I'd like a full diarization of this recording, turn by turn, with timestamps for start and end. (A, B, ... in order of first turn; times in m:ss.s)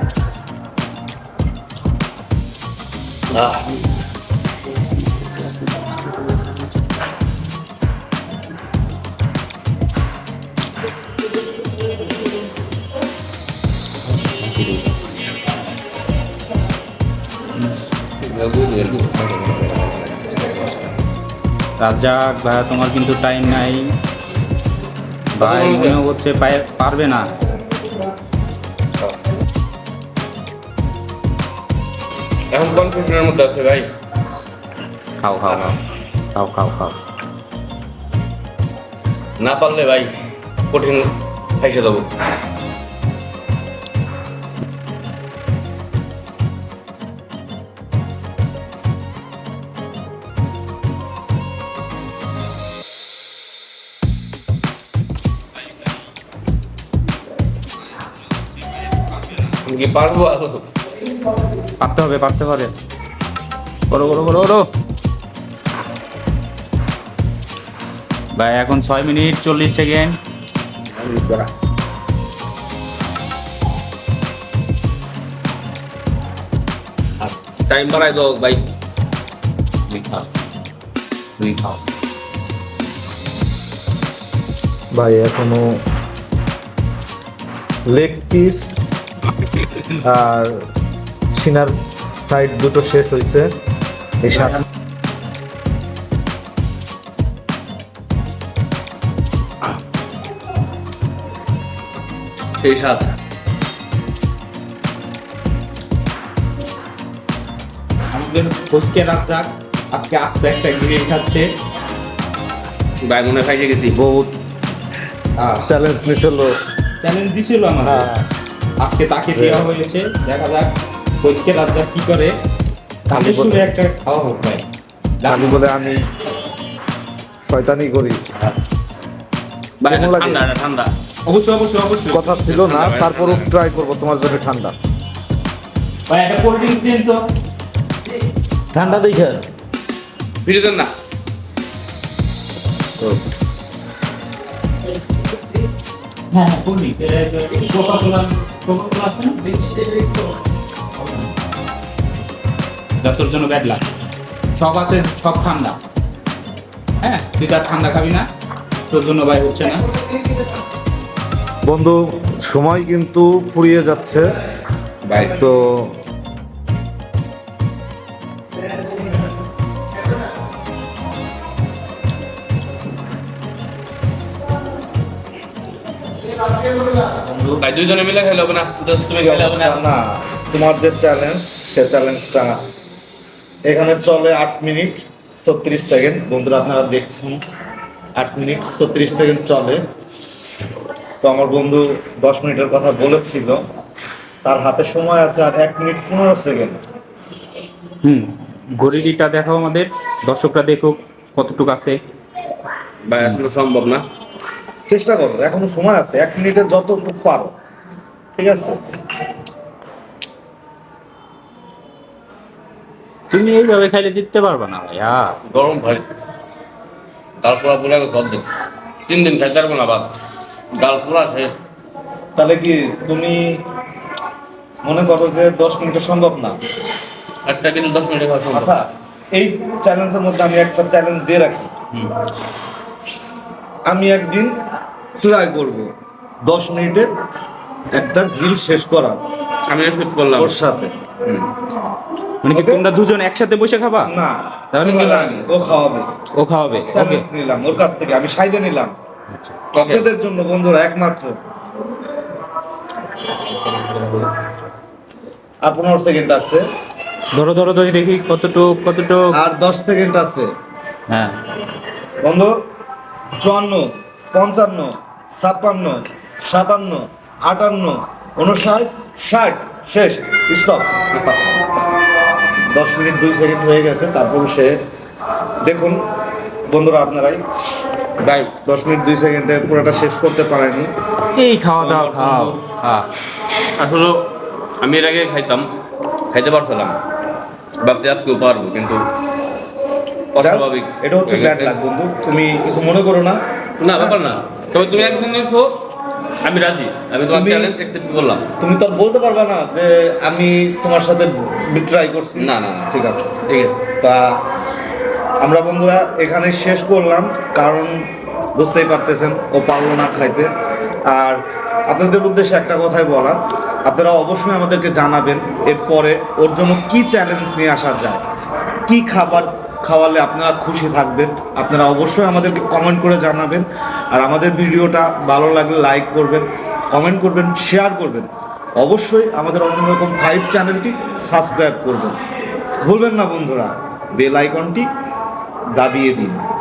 0:03.3-0:03.8 A
0:14.2-0:14.9 B
0:18.2-0:19.1 A
0:19.1-0:20.6 B
0:21.8-0:23.9 B
0:25.4-0:27.3 B
0:25.4-0:26.0 A
0:32.5-0:33.9 A
0:35.2-0:35.8 B
0:36.3-0:37.0 B
0:39.4-0:40.1 A
0:40.7-0:42.1 A
0:59.6-1:00.7 A
1:01.8-1:02.7 B
1:03.9-1:04.7 B
1:08.4-1:10.2 B
1:11.0-1:11.5 A
1:17.7-1:18.6 A
1:19.9-1:20.2 B
1:21.4-1:21.7 B
1:24.9-1:25.8 C
1:27.9-1:28.9 C
1:29.9-1:30.6 C
1:31.3-1:33.5 C
1:34.2-1:34.6 C
1:42.6-1:43.1 A
1:48.1-1:51.5 B
1:53.0-1:54.0 A
1:53.9-1:54.3 C
1:55.4-1:55.7 B
1:55.6-1:56.6 C
1:57.0-1:58.1 B
1:57.8-1:58.3 C
1:58.8-2:02.3 B
1:59.3-1:59.7 C
2:03.1-2:04.6 B
2:03.1-2:03.6 C
2:05.2-2:05.6 B
2:05.3-2:06.0 C
2:07.5-2:08.2 C
2:09.8-2:10.9 A
2:09.9-2:10.4 C
2:11.3-2:12.4 B
2:12.1-2:14.8 C
2:12.4-2:13.5 A
2:16.1-2:17.2 B
2:18.7-2:19.4 C
2:20.4-2:20.9 A
2:26.3-2:30.3 B
2:33.0-2:33.8 B
2:34.6-2:35.8 B
2:37.0-2:38.3 B
2:38.9-2:39.8 B
2:41.7-2:44.3 C
2:45.1-2:45.9 C
2:56.4-2:57.0 A
2:57.1-2:57.6 C
2:57.6-2:59.9 A
2:59.2-3:02.6 C
3:03.7-3:07.4 C
3:08.2-3:09.8 C
3:11.2-3:13.6 C
3:14.4-3:16.8 C
3:18.0-3:22.0 B
3:23.1-3:24.0 A
3:24.9-3:27.5 C
3:28.4-3:28.8 C
3:33.3-3:35.4 B
3:35.5-3:36.0 A
3:37.4-3:38.5 A
3:39.1-3:40.1 A
3:40.8-3:41.5 A
3:42.4-3:43.6 C
3:44.8-3:46.6 C
3:47.5-3:48.8 A
3:48.5-3:51.7 C
3:53.9-3:54.5 C
3:55.2-3:55.9 C
3:56.4-3:57.1 C
3:57.9-3:59.2 C
3:59.7-4:00.6 A
4:00.4-4:00.9 C
4:01.2-4:01.5 A
4:02.4-4:04.1 B
4:02.5-4:02.8 C
4:04.1-4:06.1 C
4:04.7-4:05.5 B
4:06.3-4:07.2 B
4:06.9-4:08.9 C
4:09.3-4:09.6 B
4:09.7-4:10.0 A
4:09.8-4:11.3 C
4:13.7-4:14.5 B
4:15.6-4:16.6 C
4:17.4-4:19.3 B
4:19.3-4:20.5 C
4:21.1-4:21.3 B
4:22.2-4:22.5 C
4:23.4-4:31.0 C
4:32.7-4:34.8 C
4:35.6-4:36.0 C
4:36.7-4:37.4 C
4:38.2-4:38.5 A
4:38.6-4:40.9 C
4:41.3-4:43.1 B
4:41.8-4:42.6 C
4:43.8-4:44.2 A
4:44.8-4:45.7 A
4:46.3-4:47.0 A
4:47.8-4:49.0 A
4:50.3-4:51.8 A
4:50.4-4:53.4 C
4:53.8-4:55.7 A
4:53.9-4:54.3 C
4:56.4-4:58.5 A
4:57.3-4:57.8 C
4:58.6-5:03.3 C
5:02.4-5:03.8 A
5:04.0-5:04.4 C
5:05.4-5:08.0 C
5:08.6-5:10.5 C
5:11.1-5:18.2 C
5:18.9-5:28.3 C
5:28.8-5:32.2 C
5:32.8-5:34.9 C
5:35.8-5:36.4 C